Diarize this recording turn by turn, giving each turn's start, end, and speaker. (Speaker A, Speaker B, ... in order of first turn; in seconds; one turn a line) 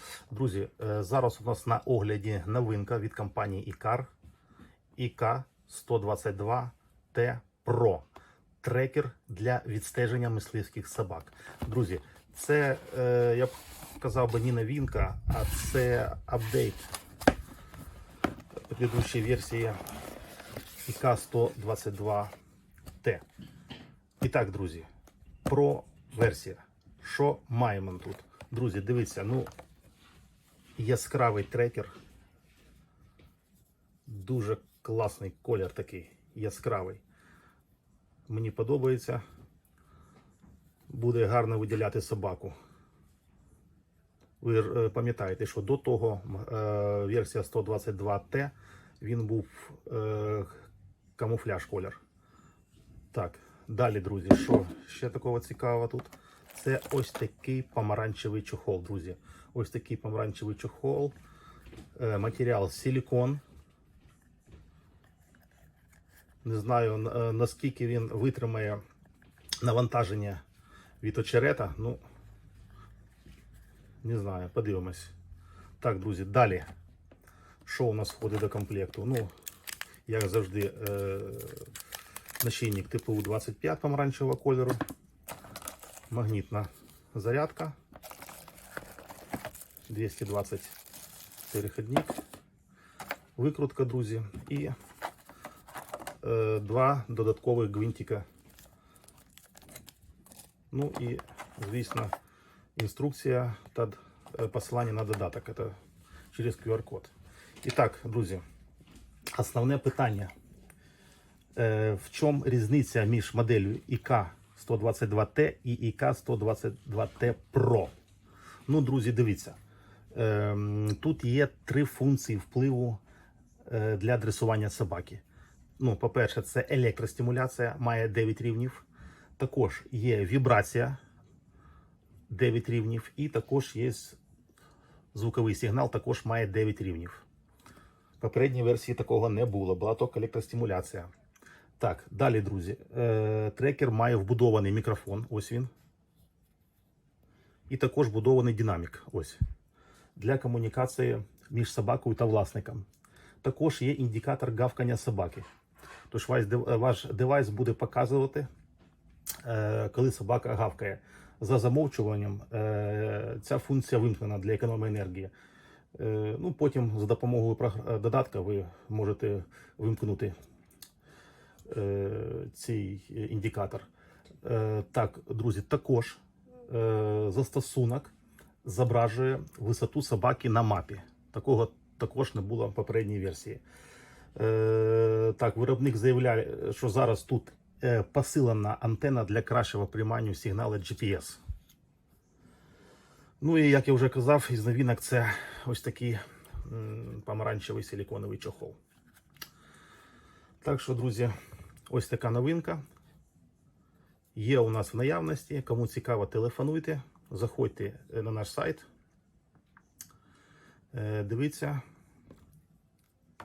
Speaker A: 0.3-4.1
Speaker A: 5.0-8.1
Speaker A: 8.6-16.9
Speaker A: 18.7-19.8
Speaker A: 20.9-22.3
Speaker A: 24.2-24.9
Speaker A: 25.5-29.5
Speaker A: 30.8-31.9
Speaker A: 34.1-37.0
Speaker A: 38.3-39.2
Speaker A: 40.9-42.5
Speaker A: 44.4-50.6
Speaker A: 51.2-52.0
Speaker A: 53.1-61.1
Speaker A: 62.0-63.4
Speaker A: 66.4-68.8
Speaker A: 69.6-70.4
Speaker A: 71.0-72.0
Speaker A: 74.0-75.1
Speaker A: 75.8-76.7
Speaker A: 77.7-79.3
Speaker A: 80.1-81.7
Speaker A: 82.4-84.8
Speaker A: 86.1-87.8
Speaker A: 89.9-90.8
Speaker A: 91.5-92.2
Speaker A: 93.4-94.7
Speaker A: 96.2-98.3
Speaker A: 100.7-102.1
Speaker A: 102.8-105.8
Speaker A: 106.3-108.4
Speaker A: 109.3-110.3
Speaker A: 111.5-117.9
Speaker A: 118.7-119.6
Speaker A: 120.1-123.0
Speaker A: 123.6-125.2
Speaker A: 125.8-128.8
Speaker A: 129.4-131.0
Speaker A: 132.3-134.2
Speaker A: 135.1-137.2
Speaker A: 138.2-141.1
Speaker A: 141.8-145.7
Speaker A: 147.7-149.4
Speaker A: 150.2-152.9
Speaker A: 153.4-155.5
Speaker A: 156.1-158.5
Speaker A: 159.4-165.3
Speaker A: 165.9-170.3
Speaker A: 171.7-173.9
Speaker A: 174.4-178.1
Speaker A: 178.6-183.6
Speaker A: 184.3-191.4
Speaker A: 193.4-198.8
Speaker A: 200.6-201.3
Speaker A: 201.9-202.8
Speaker A: 204.3-208.9
Speaker A: 210.9-211.8